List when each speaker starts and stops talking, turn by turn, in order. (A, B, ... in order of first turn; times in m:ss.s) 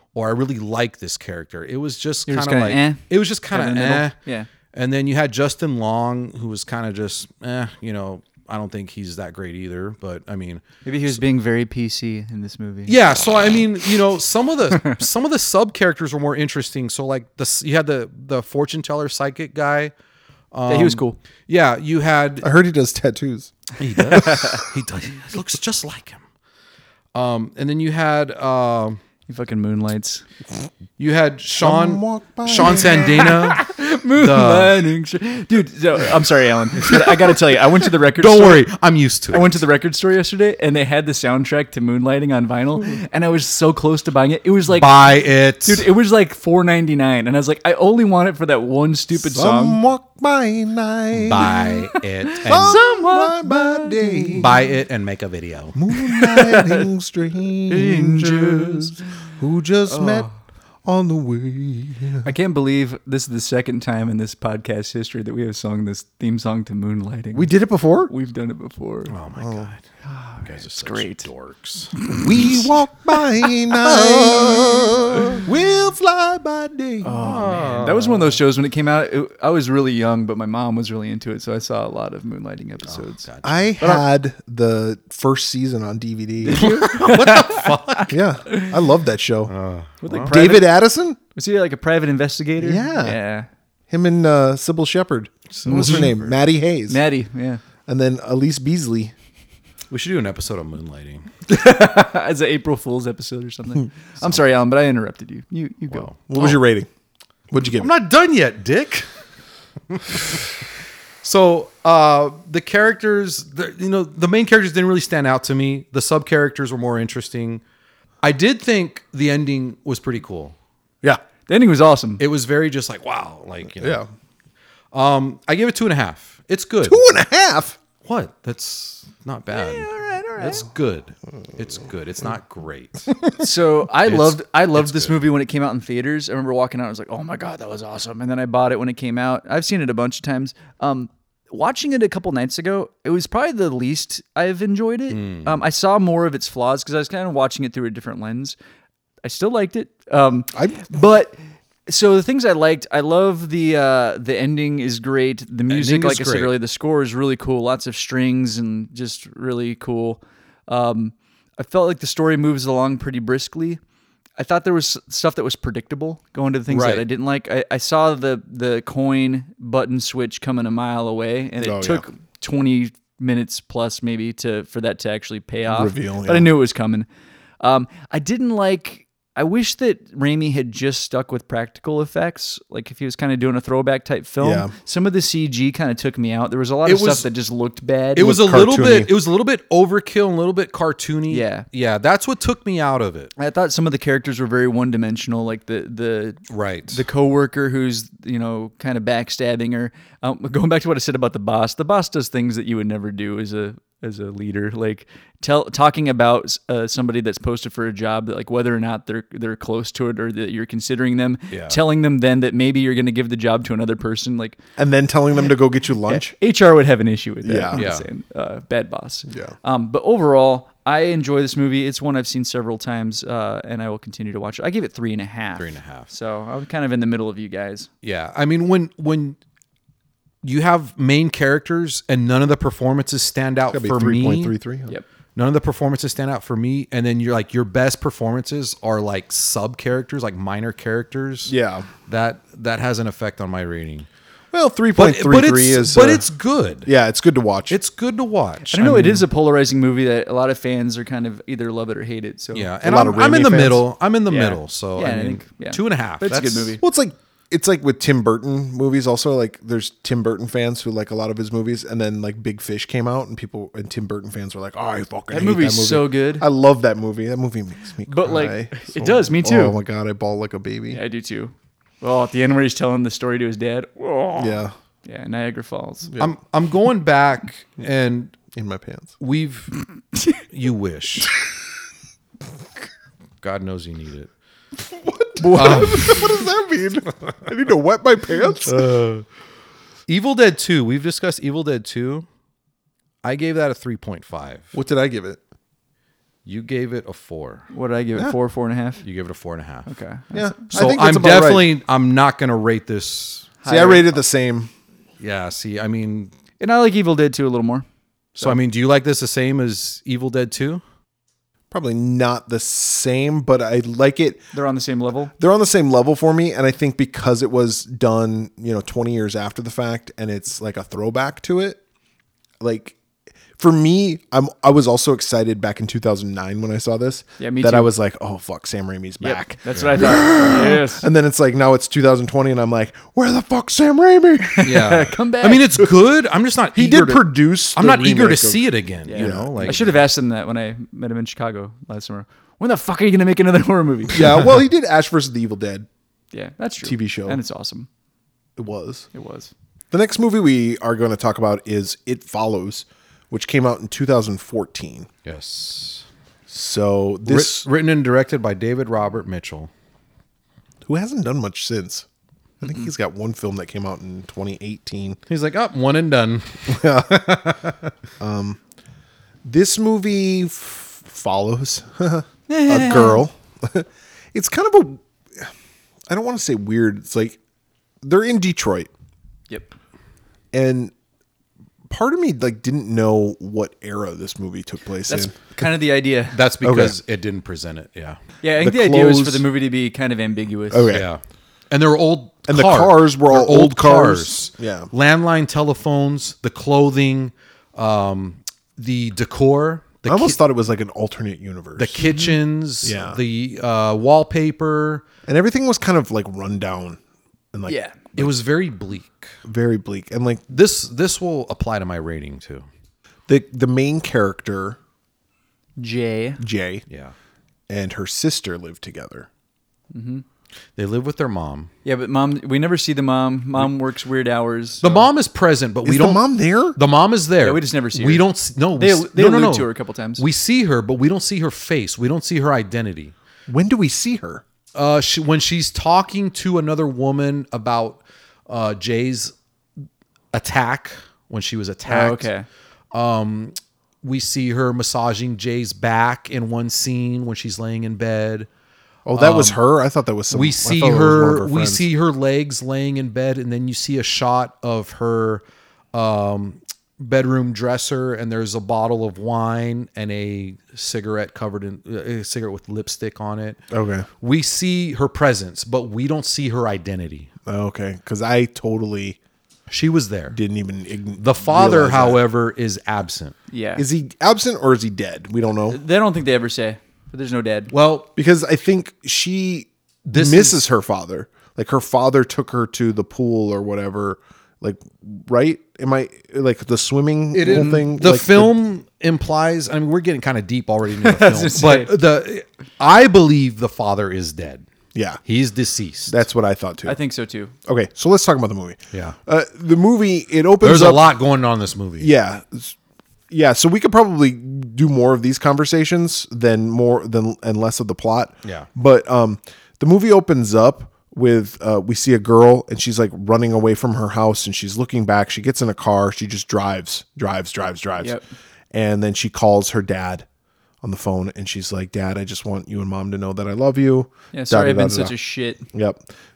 0:00.2-0:04.2 A
0:02.3-0:04.5 B
0:04.7-0:11.2 A
0:10.8-0:13.0 B
0:12.9-0:19.9 A
0:20.5-0:22.5 A
0:20.7-0:21.2 B
0:22.4-0:23.5 C
0:23.8-0:26.2 A
0:24.1-0:24.6 C
0:24.1-0:24.6 B
0:27.1-0:29.0 A
0:29.3-0:30.2 B
0:31.0-0:34.8 A
0:31.6-0:33.3 C
0:32.6-0:38.7 B
0:38.2-0:39.6 A
0:39.3-0:45.0 B
0:44.7-0:45.9 A
0:45.6-0:49.8 B
0:49.2-0:51.5 C
0:51.2-0:52.8 A
0:51.4-0:54.5 B
0:52.4-0:54.6 C
0:54.4-0:55.8 A
0:55.8-1:00.3 C
0:55.9-0:56.9 B
0:57.7-0:59.1 B
0:59.9-1:00.4 B
1:00.8-1:02.3 C
1:02.2-1:07.5 B
1:07.3-1:08.1 C
1:08.1-1:09.2 B
1:09.1-1:09.8 A
1:09.4-1:09.7 C
1:10.1-1:11.3 B
1:10.4-1:12.7 A
1:12.0-1:12.3 B
1:12.1-1:17.6 C
1:13.4-1:15.4 B
1:17.0-1:23.2 B
1:17.2-1:18.4 A
1:22.9-1:23.7 A
1:23.4-1:26.8 C
1:26.4-1:28.7 B
1:26.5-1:28.2 A
1:28.1-1:29.5 C
1:29.5-1:30.3 A
1:30.0-1:30.7 B
1:30.3-1:31.2 C
1:31.4-1:33.5 B
1:32.6-1:33.2 C
1:33.9-1:37.0 C
1:35.5-1:36.4 A
1:35.7-1:36.1 B
1:36.9-1:37.6 B
1:37.9-1:39.1 C
1:39.9-1:41.3 A
1:41.5-1:46.1 B
1:45.9-1:46.6 A
1:46.3-1:46.9 C
1:47.5-1:47.9 C
1:47.7-1:49.1 A
1:49.9-1:50.6 A
1:51.2-1:57.6 A
1:58.2-2:00.6 A
2:01.5-2:02.2 B
2:02.2-2:04.0 A
2:03.8-2:04.1 C
2:04.9-2:07.0 A
2:06.8-2:07.8 C
2:08.0-2:13.2 A
2:09.5-2:10.6 B
2:13.4-2:28.6 B
2:14.0-2:15.2 A
2:25.1-2:25.6 A
2:29.2-2:43.8 B
2:30.5-2:30.9 C
2:35.7-2:36.5 A
2:44.4-2:57.1 B
2:46.7-2:47.0 A
2:51.6-2:52.0 C
2:55.7-2:56.5 C
2:57.6-3:08.4 B
3:04.4-3:04.7 C
3:06.9-3:07.3 A
3:08.2-3:13.3 A
3:08.2-3:09.1 C
3:11.3-3:11.6 B
3:13.4-3:34.6 B
3:16.5-3:17.0 A
3:31.5-3:31.8 A
3:34.8-3:36.4 C
3:36.1-3:47.9 B
3:37.4-3:37.8 C
3:37.7-3:38.1 A
3:39.3-3:39.5 C
3:45.6-3:46.1 A
3:48.0-3:49.4 A
3:50.4-3:54.6 A
3:53.7-3:54.9 C
3:55.4-4:01.6 A
4:01.5-4:01.9 C
4:02.1-4:04.1 A
4:04.5-4:06.3 C
4:05.0-4:06.9 A
4:06.8-4:07.8 C
4:07.7-4:09.2 A
4:08.7-4:12.7 B
4:12.5-4:16.8 A
4:12.8-4:13.9 C
4:14.3-4:16.8 B
4:16.8-4:31.0 C
4:25.3-4:26.4 B
4:28.1-4:29.8 B
4:30.9-4:36.1 B
4:34.4-4:34.7 C
4:36.2-4:38.4 A
4:38.5-4:39.2 C
4:39.2-4:39.8 A
4:40.5-4:41.3 A
4:43.4-4:44.3 A
4:44.8-4:49.0 C
4:45.4-4:46.3 B
4:45.5-4:46.2 A
4:48.7-4:49.2 A
4:50.1-4:52.3 A
4:53.2-4:54.7 A
4:54.7-4:55.4 C
4:56.4-4:57.7 A
4:57.7-4:59.0 B
4:59.0-4:59.9 A
4:59.9-5:00.8 B
5:00.3-5:01.7 C
5:00.7-5:03.5 A
5:03.6-5:04.1 B
5:03.6-5:04.7 C
5:05.2-5:06.3 A
5:06.6-5:07.8 B
5:08.4-5:10.8 A
5:11.7-5:14.4 C
5:14.5-5:15.3 B
5:15.4-5:21.8 C
5:22.6-5:23.0 C
5:23.6-5:34.8 C
5:27.4-5:27.9 B
5:29.2-5:31.1 B
5:34.5-5:35.8 B
5:34.6-5:40.0 A
5:36.8-5:39.8 C
5:39.0-5:44.5 B
5:44.1-5:45.9 C
5:46.3-5:47.9 B
5:46.8-5:47.4 C
5:48.6-5:49.1 C
5:49.1-5:49.5 B
5:49.9-5:55.1 C
5:55.2-5:56.0 A
5:56.5-5:57.7 C
5:57.3-5:59.7 A
6:00.8-6:02.1 C
6:02.6-6:05.2 C
6:02.6-6:02.9 B
6:05.3-6:07.8 A
6:06.7-6:07.6 C
6:08.2-6:08.6 C
6:09.4-6:15.5 C
6:12.5-6:13.2 B
6:16.1-6:17.4 C
6:18.0-6:18.9 C
6:20.5-6:20.9 C
6:21.9-6:25.3 C
6:25.1-6:26.4 B
6:26.3-6:28.2 A
6:26.6-6:27.0 C
6:28.4-6:30.9 B
6:28.6-6:29.5 C
6:30.7-6:31.1 C
6:30.9-6:40.4 A
6:32.5-6:34.9 C
6:40.1-6:42.0 C
6:41.8-6:45.0 A
6:42.0-6:42.4 B
6:42.8-6:43.2 C
6:45.3-6:47.0 C
6:47.5-6:48.3 C
6:47.7-6:48.0 B
6:48.2-6:49.4 A
6:49.4-6:50.4 C
6:50.5-6:52.7 A
6:53.3-6:54.8 C
6:55.8-6:56.4 B
6:56.4-6:56.8 C
6:57.7-6:59.3 C
6:59.9-7:00.2 B
7:00.8-7:01.7 A
7:01.8-7:05.1 B
7:04.8-7:06.2 A
7:05.8-7:06.8 C
7:06.8-7:13.1 A
7:07.4-7:10.2 B
7:13.5-7:14.4 C
7:14.8-7:19.3 A
7:20.3-7:22.3 A
7:21.9-7:22.5 B
7:22.9-7:28.5 A
7:29.1-7:31.9 C
7:29.2-7:29.6 A
7:30.3-7:43.6 A
7:43.7-7:44.1 C
7:44.2-7:47.3 A
7:47.5-7:49.2 C
7:49.7-7:50.4 A
7:50.3-7:52.2 C
7:51.2-7:53.4 A
7:53.5-7:53.8 B
7:53.8-7:55.8 C
7:55.7-7:57.7 B
7:57.7-7:58.1 A
7:58.2-8:08.5 C
8:00.1-8:00.6 A
8:07.3-8:14.6 A
8:07.4-8:07.9 B
8:11.0-8:11.9 B
8:14.9-8:15.2 C
8:15.2-8:16.2 A
8:16.1-8:17.0 C
8:16.9-8:17.5 B
8:17.7-8:21.1 C
8:18.9-8:19.2 A
8:20.6-8:22.1 A
8:22.0-8:22.8 C
8:23.3-8:38.2 C
8:38.7-8:40.3 C
8:40.8-8:45.2 C
8:44.3-8:45.6 B
8:45.7-8:46.1 C